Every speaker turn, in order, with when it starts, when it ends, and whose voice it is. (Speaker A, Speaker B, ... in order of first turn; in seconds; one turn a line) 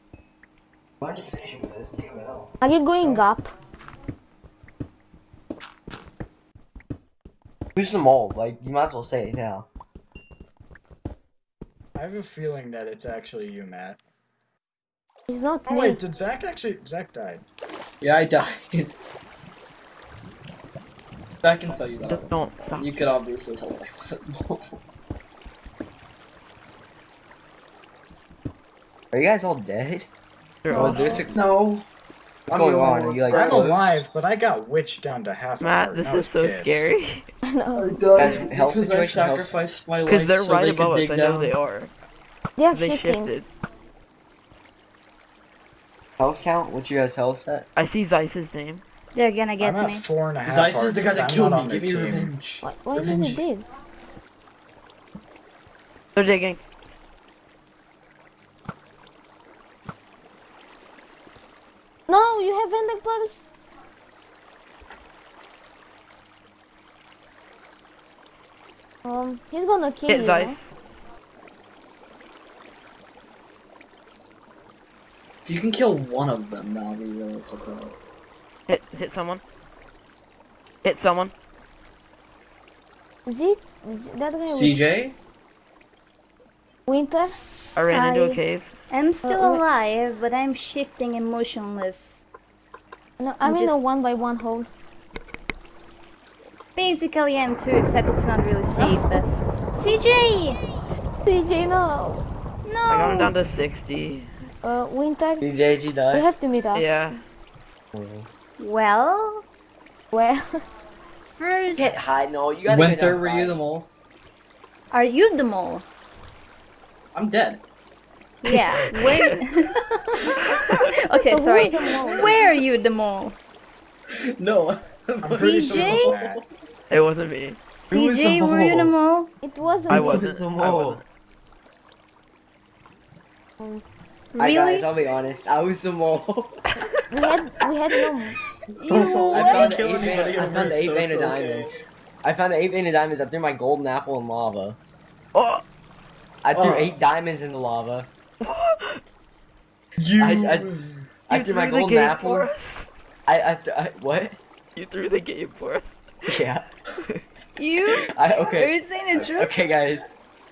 Speaker A: 1.0-2.5
Speaker B: 2.6-3.5
Speaker C: 3.0-3.2
Speaker A: 7.8-9.7
Speaker C: 11.9-14.0
Speaker B: 15.3-16.0
Speaker C: 15.7-17.4
Speaker D: 18.0-18.9
Speaker D: 21.4-24.8
Speaker E: 22.0-22.9
Speaker A: 29.1-30.1
Speaker E: 30.6-31.2
Speaker A: 30.7-31.5
Speaker C: 30.7-31.3
Speaker D: 30.7-31.9
Speaker D: 32.5-33.7
Speaker A: 32.5-34.0
Speaker C: 33.3-36.9
Speaker E: 35.6-37.3
Speaker B: 37.4-38.5
Speaker D: 37.8-41.5
Speaker A: 38.1-39.6
Speaker E: 40.0-41.9
Speaker B: 42.6-43.3
Speaker E: 42.7-43.5
Speaker A: 46.2-47.7
Speaker E: 47.8-48.8
Speaker F: 49.1-50.0
Speaker C: 49.6-52.3
Speaker D: 50.4-53.4
Speaker B: 52.6-53.6
Speaker E: 56.1-56.6
Speaker B: 62.1-63.5
Speaker B: 69.0-70.6
Speaker E: 70.1-70.7
Speaker D: 75.4-78.0
Speaker E: 78.7-79.4
Speaker E: 80.8-81.3
Speaker B: 83.2-84.8
Speaker D: 84.4-85.2
Speaker B: 86.9-87.3
Speaker E: 87.8-88.7
Speaker F: 87.9-88.4
Speaker F: 88.9-92.2
Speaker B: 89.2-89.6
Speaker B: 93.2-94.7
Speaker F: 93.4-93.8
Speaker F: 96.8-100.7
Speaker B: 98.8-99.0
Speaker B: 101.2-102.2
Speaker F: 102.6-103.3
Speaker E: 102.9-104.3
Speaker B: 104.6-105.4
Speaker A: 105.4-106.3
Speaker B: 106.1-106.8
Speaker E: 106.7-107.2
Speaker A: 107.9-108.3
Speaker F: 108.6-109.4
Speaker B: 110.1-110.6
Speaker F: 111.3-112.0
Speaker A: 111.8-113.6
Speaker D: 112.7-113.9
Speaker F: 114.9-115.8
Speaker D: 117.1-117.6
Speaker F: 118.4-123.3
Speaker E: 118.8-119.4
Speaker B: 121.3-122.5
Speaker D: 124.1-126.4
Speaker C: 125.2-126.4
Speaker F: 125.3-126.2
Speaker E: 126.9-127.6
Speaker F: 127.9-129.3
Speaker A: 127.9-128.9
Speaker B: 129.4-130.2
Speaker A: 129.9-131.0
Speaker E: 129.9-131.0
Speaker F: 134.3-134.9
Speaker A: 134.4-136.8
Speaker B: 137.1-138.4
Speaker F: 138.8-140.3
Speaker D: 138.9-141.7
Speaker A: 139.3-144.8
Speaker E: 145.3-145.6
Speaker A: 146.4-148.1
Speaker D: 146.5-146.9
Speaker E: 148.4-149.0
Speaker D: 150.0-151.1
Speaker A: 150.2-152.5
Speaker E: 151.3-152.9
Speaker A: 153.3-154.4
Speaker E: 154.8-156.0
Speaker A: 156.3-156.7
Speaker F: 157.6-159.5
Speaker A: 157.9-160.1